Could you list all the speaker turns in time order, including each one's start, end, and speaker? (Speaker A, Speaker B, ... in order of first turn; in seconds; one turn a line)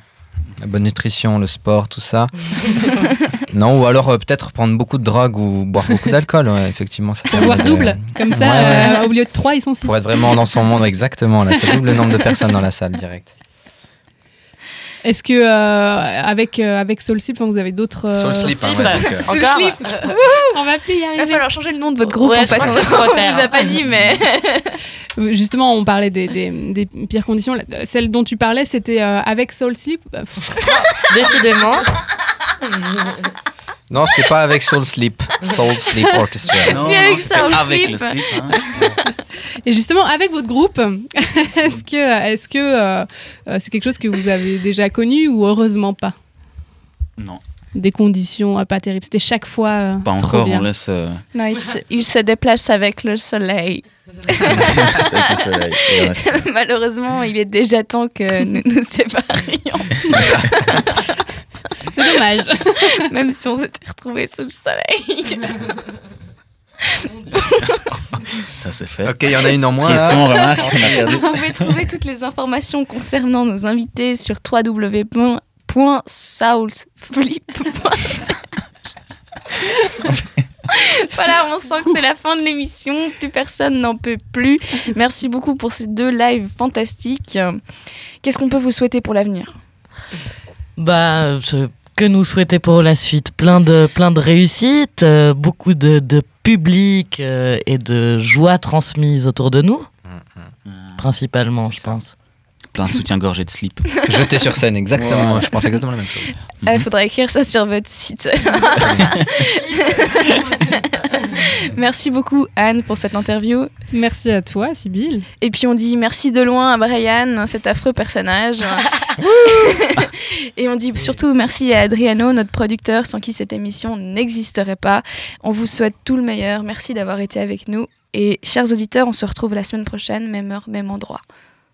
Speaker A: 0.6-2.3
Speaker A: 3.5-9.0
Speaker B: 7.3-10.0
Speaker A: 9.8-13.3
Speaker B: 15.0-18.9
Speaker A: 18.1-19.3
Speaker C: 18.6-20.1
Speaker D: 18.9-20.6
Speaker B: 20.5-21.4
Speaker D: 21.1-24.8
Speaker C: 22.0-23.8
Speaker B: 25.2-30.6
Speaker C: 30.6-31.9
Speaker A: 33.9-36.8
Speaker E: 36.7-38.6
Speaker D: 36.7-38.9
Speaker B: 39.6-46.1
Speaker B: 47.7-50.6
Speaker E: 50.0-51.2
Speaker D: 51.3-55.1
Speaker E: 54.3-56.4
Speaker D: 55.8-61.1
Speaker A: 60.1-60.5
Speaker B: 61.9-62.9
Speaker D: 62.9-65.8
Speaker D: 66.8-67.8
Speaker E: 68.6-71.7
Speaker A: 69.0-71.0
Speaker D: 70.1-78.5
Speaker D: 80.7-87.6
Speaker D: 88.2-89.5
Speaker C: 90.8-99.9
Speaker A: 100.1-100.5
Speaker E: 100.7-101.0
Speaker C: 101.0-102.1
Speaker A: 101.7-102.0
Speaker E: 102.7-103.8
Speaker A: 104.0-106.3
Speaker E: 104.9-105.5
Speaker D: 106.7-113.7
Speaker A: 108.8-109.1
Speaker C: 109.7-110.8
Speaker B: 113.9-115.2
Speaker D: 115.4-131.2